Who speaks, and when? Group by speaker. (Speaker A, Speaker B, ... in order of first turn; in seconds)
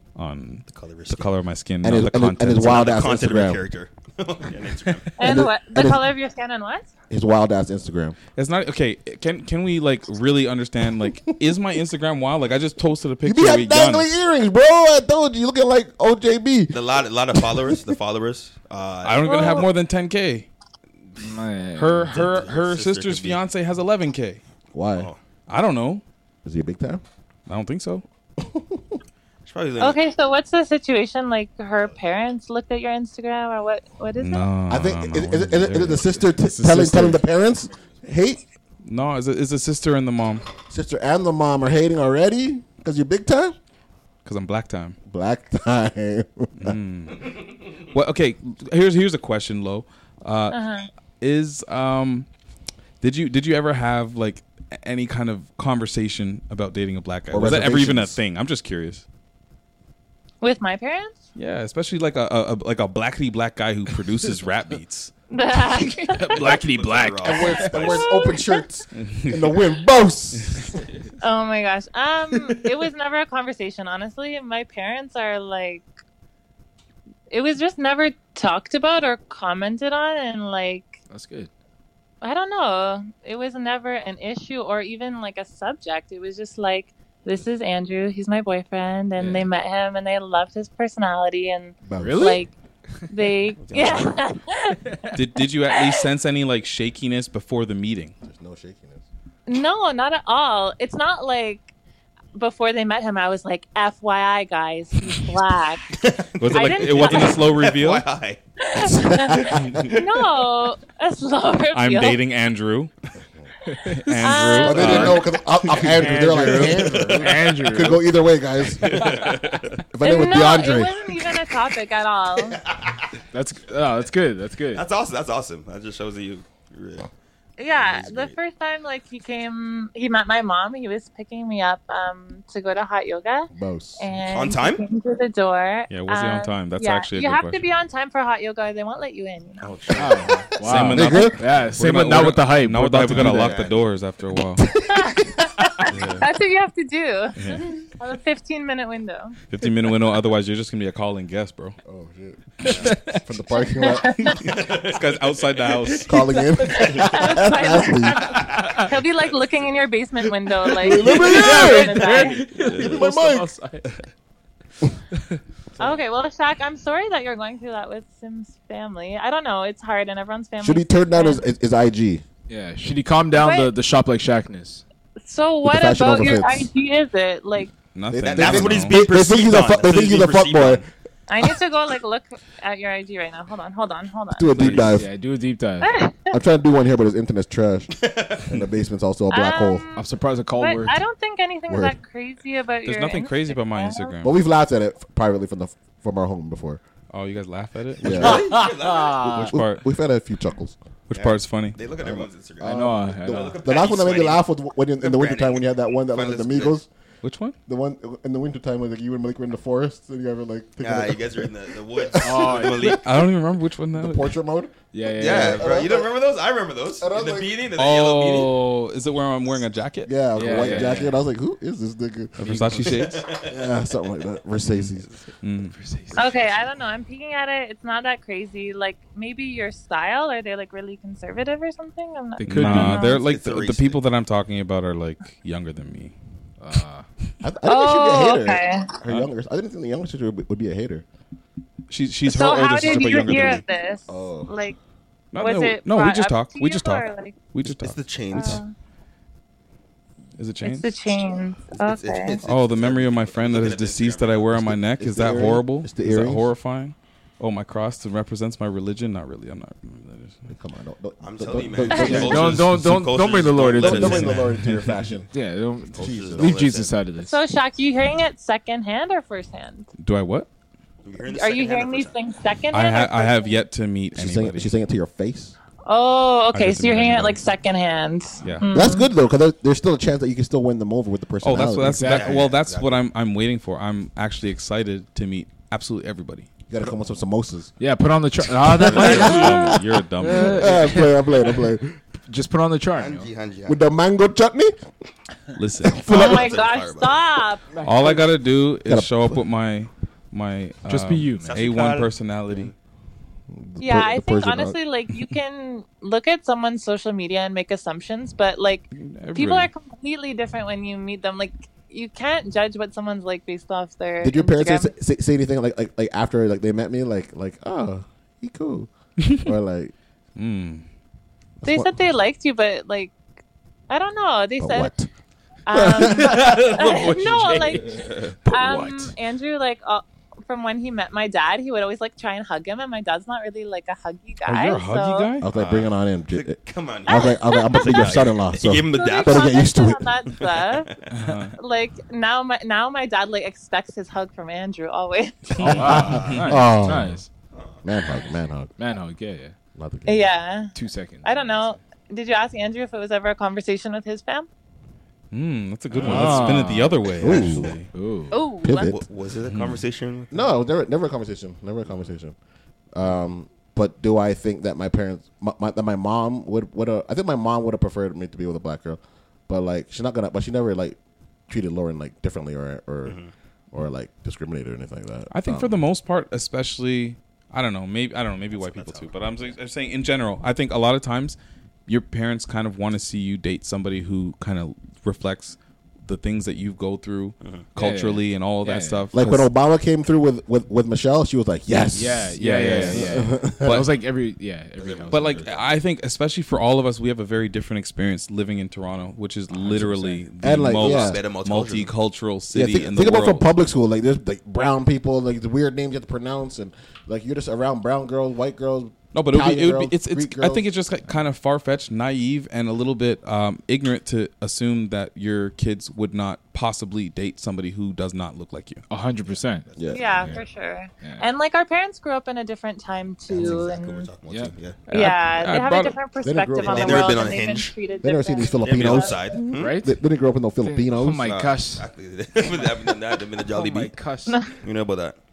Speaker A: 0.1-2.9, 8.4-14.1, 19.0-20.5, 21.8-24.4, 25.5-26.0, 27.5-28.1, 34.2-37.2, 38.8-40.5, 44.2-45.0, 46.6-47.3, 47.9-50.6, 51.2-52.3, 53.0-59.0, 61.4-65.1, 69.0-69.5, 95.1-98.1, 106.4-108.0, 111.7-112.9, 114.0-115.2, 135.9-137.7, 140.6-144.7, 145.9-146.3, 147.4-147.6, 149.5-151.8, 154.7-156.1, 177.9-179.1, 184.6-184.9, 192.8-194.3, 197.1-198.4, 199.3-199.8, 201.1-201.8, 207.2-207.6, 212.9-214.4, 217.8-220.9, 222.4-223.3, 225.4-225.7, 232.4-236.1, 241.9-243.6, 245.3-248.6, 250.4-250.9, 252.4-260.4, 270.0-270.5, 272.7-274.7, 276.5-277.4, 278.4-278.7, 281.4-286.5, 288.9-291.0, 295.6-296.2, 297.8-302.7, 308.9-309.7, 319.2-319.5, 320.4-320.9, 334.4-335.4, 341.1-341.6, 346.3-347.2, 355.3-357.9, 359.5-359.8, 375.3-389.4, 392.4-393.0, 393.6-393.9, 395.1-403.4, 409.1-418.9, 424.9-426.0
Speaker B: 0.7-1.3, 2.6-5.3, 16.7-19.7, 22.1-23.4, 24.9-25.2, 29.4-30.0, 66.3-68.1, 93.6-94.1, 105.9-108.4, 109.5-110.1, 116.6-117.7, 118.8-119.8, 122.5-123.1, 124.7-127.1, 127.7-128.4, 134.3-134.8, 139.6-140.4, 143.4-143.8, 154.4-155.9, 158.2-159.4, 178.2-180.8, 188.0-188.6, 198.0-199.3, 201.1-204.4, 205.0-206.8, 210.8-213.1, 215.2-218.7, 222.9-223.7, 233.1-234.0, 247.6-248.6, 251.7-254.7, 261.2-264.4, 265.9-267.0, 271.0-272.2, 282.0-283.1, 292.9-293.8, 296.1-297.2, 301.4-302.7, 326.3-328.5, 335.5-339.7, 340.3-341.0, 345.5-346.4, 347.5-348.4, 355.9-356.6, 357.2-357.7, 358.7-360.4, 373.1-373.3, 378.5-379.5, 394.8-395.7, 400.7-401.9, 419.3-420.5, 423.3-424.9, 426.6-427.8, 428.5-429.8, 431.3-434.0, 434.5-435.2
Speaker C: 1.8-3.6, 5.2-6.1, 7.1-8.2, 13.2-16.8, 24.7-25.1, 26.4-27.0, 28.4-28.9, 34.7-38.4, 40.7-43.5, 45.1-46.8, 57.3-58.2, 67.2-70.8, 91.8-92.4, 98.2-99.0, 108.8-109.9, 114.6-119.0, 119.9-121.0, 133.5-134.1, 140.9-141.4, 143.2-143.6, 144.6-145.4, 151.8-154.4, 156.1-158.3, 160.8-163.5, 170.6-172.2, 175.6-176.7, 178.1-180.8, 184.3-185.1, 186.3-189.9, 191.7-192.0, 194.2-196.8, 198.0-198.6, 199.2-200.8, 202.0-206.9, 207.7-212.6, 213.9-216.1, 217.0-217.6, 220.1-222.6, 223.4-225.1, 237.4-241.1, 244.1-244.6, 255.0-256.5, 260.5-262.7, 263.6-265.3, 266.0-266.6, 274.1-275.6, 278.7-282.3, 286.7-287.7, 288.6-291.9, 293.7-294.8, 295.9-296.6, 298.9-299.4, 303.5-304.8, 314.2-319.9, 321.6-322.0, 324.6-325.1, 325.7-326.8, 335.4-340.3, 345.6-347.1, 347.8-348.7, 349.7-350.3, 356.1-357.8, 358.6-359.0, 360.3-362.4, 362.9-373.2, 373.7-375.8, 389.1-393.9, 400.4-401.2, 402.5-410.6, 419.8-420.4, 426.2-427.4, 428.0-431.4
Speaker D: 5.2-6.9, 19.3-19.7, 29.8-34.5, 50.5-50.9, 60.4-61.2, 65.3-66.4, 67.9-68.7, 71.2-75.8, 77.3-81.0, 82.2-92.5, 93.1-94.8, 95.7-96.0, 99.5-101.7, 102.3-106.0, 106.5-107.4, 108.6-112.2, 114.2-115.3, 120.0-122.6, 127.6-139.7, 144.9-149.4, 153.5-154.4, 156.7-162.6, 165.8-171.4, 173.3-173.7, 175.2-177.7, 181.3-184.8, 185.8-186.4, 189.3-190.1, 190.6-194.1, 226.1-233.2, 237.6-239.0, 242.2-244.8, 245.4-247.4, 248.3-248.7, 250.6-252.4, 267.2-269.9, 271.3-273.6, 275.9-279.1, 296.1-298.2, 303.8-314.9, 321.6-323.1, 323.9-324.9, 325.7-335.3, 337.1-340.9, 341.6-345.7, 350.1-350.7, 351.2-354.5, 358.3-358.9, 419.9-424.1, 424.9-429.3
Speaker E: 21.2-22.2, 65.6-68.0, 81.1-81.5, 89.2-89.5, 92.0-92.4, 113.7-118.1, 118.9-119.3, 123.3-124.8, 140.0-143.6, 152.7-153.2, 158.6-158.8, 160.8-163.9, 172.5-174.8, 184.6-185.9, 189.9-191.0, 198.3-199.5, 202.6-203.6, 212.2-213.0, 214.9-215.8, 220.4-221.2, 222.4-223.0, 225.7-226.3, 232.4-233.1, 236.6-237.1, 261.9-264.6, 265.3-267.4, 281.9-282.4, 287.8-291.6, 292.3-293.3, 297.7-298.2, 300.9-301.6, 328.8-329.1, 345.6-347.3, 348.8-349.5, 350.7-351.8, 356.0-357.0, 357.9-358.4, 387.8-389.1, 391.9-395.4, 399.5-400.2, 418.9-419.7, 424.3-424.5, 429.5-429.9, 430.6-431.9, 433.5-434.4